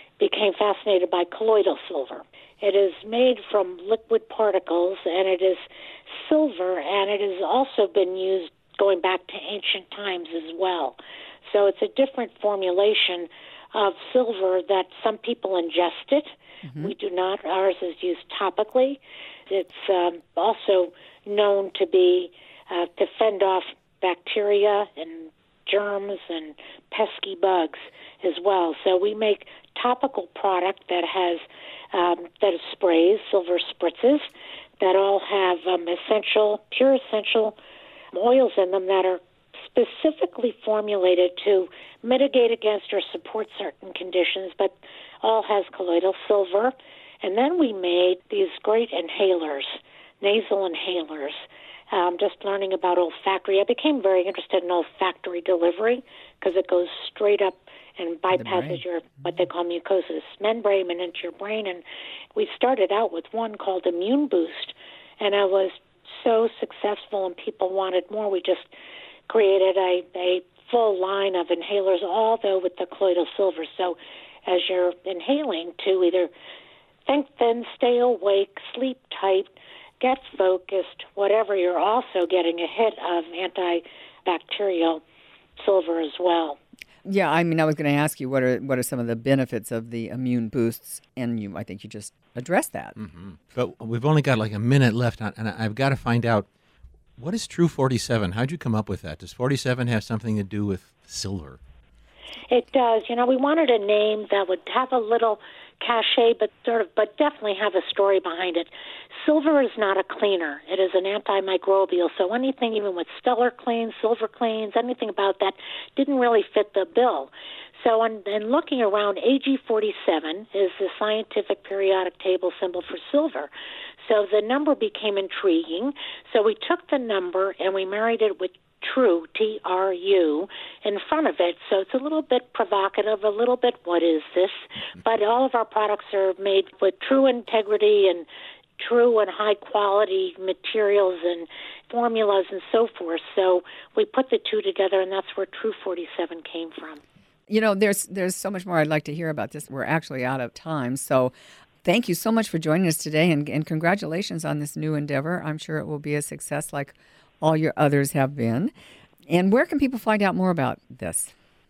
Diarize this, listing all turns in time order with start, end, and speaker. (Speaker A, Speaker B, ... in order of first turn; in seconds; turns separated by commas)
Speaker A: 0.2-34.3, Speaker B: 16.7-16.9, Speaker A: 34.8-37.6, Speaker A: 38.1-61.8, Speaker B: 58.3-58.8, Speaker A: 62.4-68.7, Speaker A: 69.3-76.3, Speaker A: 77.1-85.0, Speaker A: 85.6-86.6, Speaker B: 87.0-93.0, Speaker C: 93.0-96.5, Speaker C: 97.2-101.6, Speaker A: 102.5-108.7, Speaker A: 109.2-123.5, Speaker A: 124.0-138.2, Speaker A: 138.8-147.0, Speaker B: 147.5-151.3, Speaker B: 151.8-158.7, Speaker B: 159.3-161.3